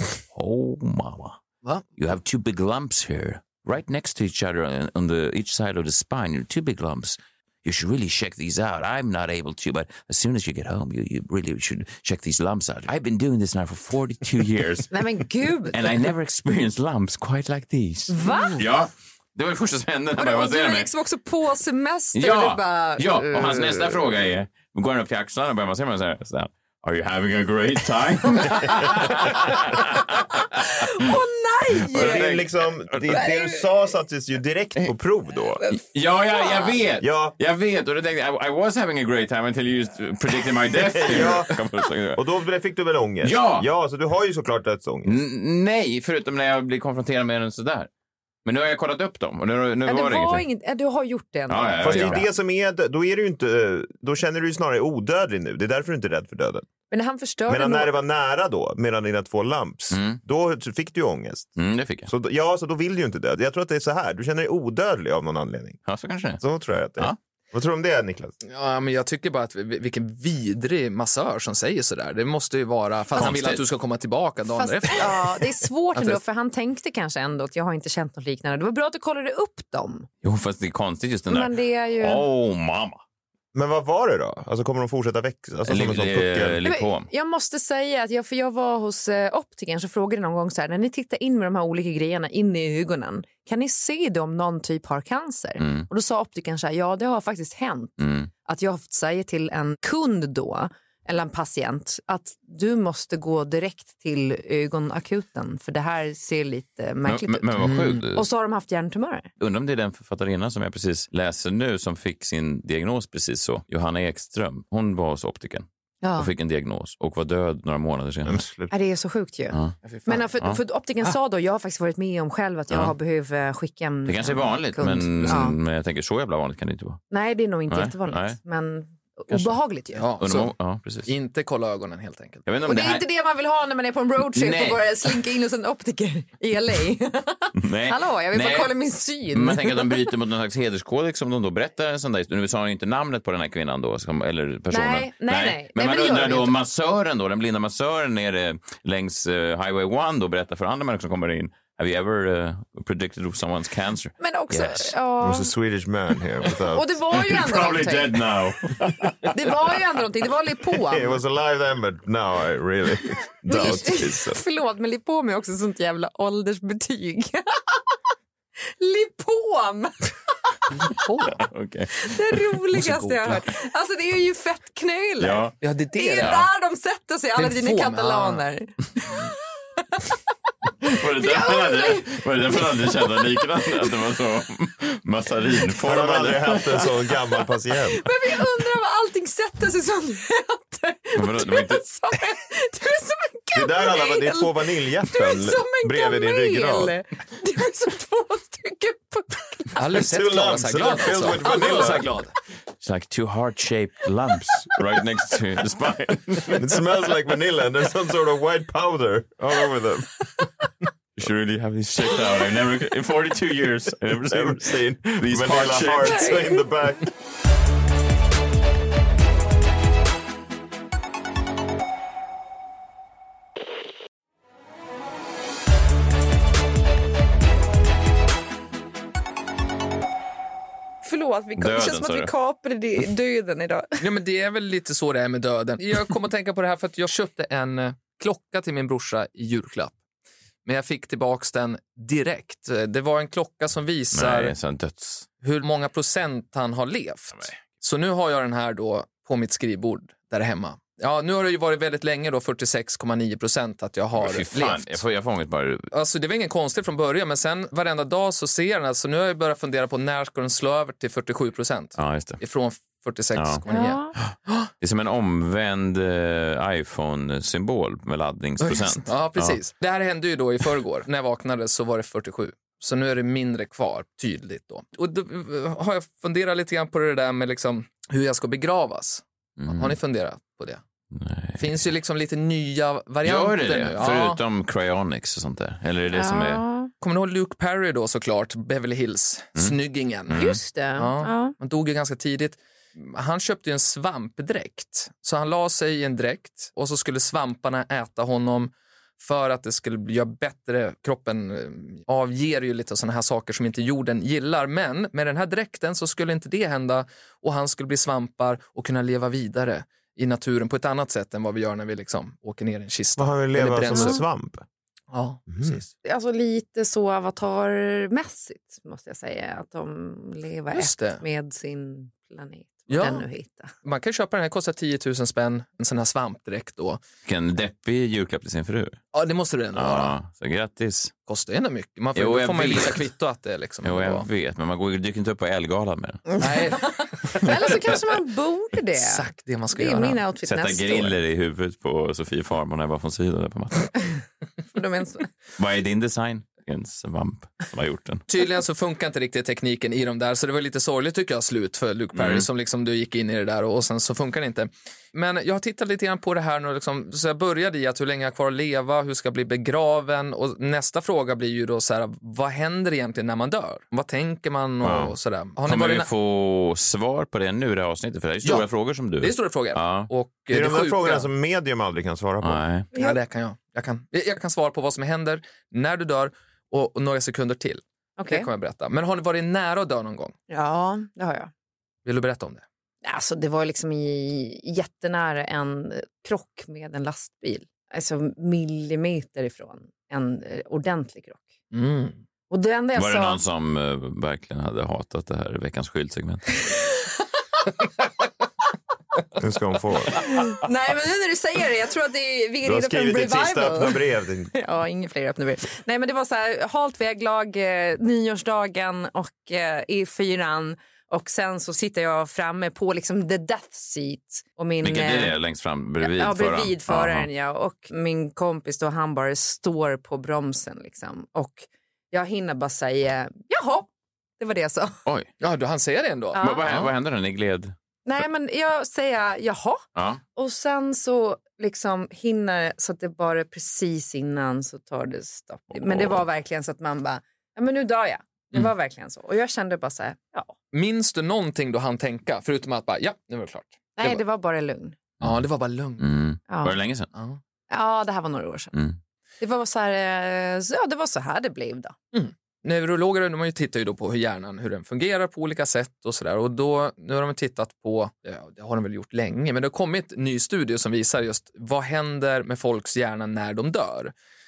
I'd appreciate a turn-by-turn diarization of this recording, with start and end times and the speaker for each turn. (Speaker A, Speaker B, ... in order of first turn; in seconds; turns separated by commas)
Speaker A: 0.3-1.4, Speaker A: 2.0-14.9, Speaker B: 14.9-15.9, Speaker A: 15.7-20.9, Speaker B: 18.1-18.7, Speaker B: 20.1-24.0, Speaker A: 22.1-31.1, Speaker B: 28.3-28.6, Speaker B: 29.3-29.8, Speaker B: 30.5-32.3, Speaker A: 31.9-33.2, Speaker C: 31.9-35.6, Speaker B: 33.1-33.7, Speaker A: 35.7-42.2, Speaker B: 36.4-36.8, Speaker C: 37.0-37.3, Speaker C: 40.9-45.2, Speaker A: 43.2-43.7, Speaker A: 45.0-47.9, Speaker A: 48.4-50.4, Speaker B: 49.8-52.3, Speaker A: 51.5-52.2, Speaker C: 51.8-56.7, Speaker B: 56.9-57.9, Speaker C: 57.5-61.5, Speaker A: 59.9-60.2, Speaker A: 61.6-62.1, Speaker C: 62.0-65.8, Speaker A: 65.8-66.4, Speaker C: 66.4-68.3, Speaker D: 68.4-76.2, Speaker A: 73.1-73.6, Speaker B: 74.5-80.1, Speaker A: 80.2-83.0, Speaker B: 81.3-82.2, Speaker C: 83.5-86.6, Speaker A: 85.7-87.1, Speaker B: 86.6-109.3, Speaker A: 95.6-95.9, Speaker A: 98.0-98.3, Speaker A: 107.0-108.2, Speaker D: 107.6-108.0, Speaker A: 109.4-118.4, Speaker B: 116.0-116.3, Speaker C: 118.2-118.7, Speaker B: 118.7-125.5, Speaker D: 119.8-120.3, Speaker A: 122.7-123.0, Speaker A: 124.0-127.0, Speaker B: 127.1-130.1, Speaker A: 127.7-128.4, Speaker D: 129.9-132.5, Speaker A: 130.2-131.1, Speaker A: 132.4-133.0, Speaker B: 132.6-140.0, Speaker A: 134.3-134.8, Speaker A: 137.6-138.7, Speaker A: 139.3-154.9, Speaker B: 144.7-146.5, Speaker B: 154.2-155.5, Speaker C: 155.2-157.0, Speaker B: 156.7-158.2, Speaker A: 157.1-159.8, Speaker B: 159.3-161.2, Speaker C: 160.8-164.4, Speaker B: 163.5-167.8, Speaker B: 168.8-170.9, Speaker D: 170.7-171.4, Speaker A: 171.4-172.5, Speaker B: 172.0-180.0, Speaker D: 172.7-173.4, Speaker A: 175.2-175.6, Speaker D: 175.6-176.4, Speaker A: 176.2-176.5, Speaker D: 177.3-178.4, Speaker B: 180.8-183.1, Speaker A: 180.8-186.9, Speaker C: 185.8-188.1, Speaker B: 187.9-199.8, Speaker A: 191.1-191.8, Speaker C: 193.5-196.9, Speaker D: 199.8-202.3, Speaker C: 199.9-202.1, Speaker A: 202.8-206.7, Speaker C: 206.5-210.4, Speaker A: 211.2-216.4, Speaker C: 214.3-217.1, Speaker B: 215.9-216.7, Speaker B: 231.0-234.0, Speaker A: 231.6-232.3, Speaker D: 234.0-239.9, Speaker D: 240.6-244.5, Speaker A: 244.1-245.3, Speaker D: 245.4-255.0, Speaker A: 254.2-255.9, Speaker D: 255.9-264.7, Speaker A: 262.0-262.4, Speaker A: 263.3-263.6, Speaker B: 263.7-264.1, Speaker A: 264.2-269.6, Speaker D: 268.6-280.8, Speaker A: 279.6-280.0, Speaker A: 281.1-281.8, Speaker D: 281.6-284.4, Speaker A: 283.2-286.6, Speaker B: 286.1-286.9, Speaker D: 287.0-290.4, Speaker A: 290.3-290.6, Speaker B: 290.3-291.5, Speaker D: 290.9-314.2, Speaker C: 313.2-314.6, Speaker B: 313.9-314.2, Speaker D: 315.1-315.9, Speaker C: 315.5-315.8, Speaker B: 316.0-323.7, Speaker D: 320.7-321.2, Speaker D: 322.9-323.2, Speaker D: 323.8-327.0, Speaker A: 327.2-329.0, Speaker D: 329.1-330.1, Speaker A: 329.7-331.1, Speaker D: 331.3-334.3, Speaker A: 332.1-333.0, Speaker A: 333.8-336.4, Speaker D: 336.4-337.9, Speaker B: 337.3-341.2, Speaker D: 338.9-340.2, Speaker A: 340.4-344.1, Speaker B: 344.7-345.3, Speaker A: 345.6-348.2, Speaker D: 348.3-366.1, Speaker A: 352.1-352.4, Speaker A: 364.8-370.1, Speaker D: 369.2-371.3, Speaker C: 370.5-372.6, Speaker A: 372.4-372.9, Speaker D: 372.9-380.3, Speaker B: 378.2-378.5, Speaker B: 380.5-381.5, Speaker D: 382.0-382.6, Speaker B: 383.0-391.4, Speaker D: 391.7-392.2, Speaker B: 392.5-393.4, Speaker A: 392.9-396.6, Speaker C: 399.4-400.3, Speaker B: 400.2-404.0, Speaker C: 402.6-404.5, Speaker B: 404.5-415.3, Speaker A: 414.8-417.3, Speaker B: 416.0-425.0, Speaker D: 425.4-426.9, Speaker B: 426.3-426.6, Speaker A: 426.4-427.7, Speaker B: 428.0-429.8, Speaker A: 429.9-430.2, Speaker B: 430.3-440.5, Speaker A: 435.8-436.2, Speaker D: 440.7-444.2, Speaker B: 444.0-445.0, Speaker D: 445.2-446.0, Speaker A: 446.0-447.1, Speaker B: 446.5-446.7, Speaker D: 447.1-447.4, Speaker B: 447.7-448.7, Speaker B: 449.4-451.9, Speaker D: 452.1-464.1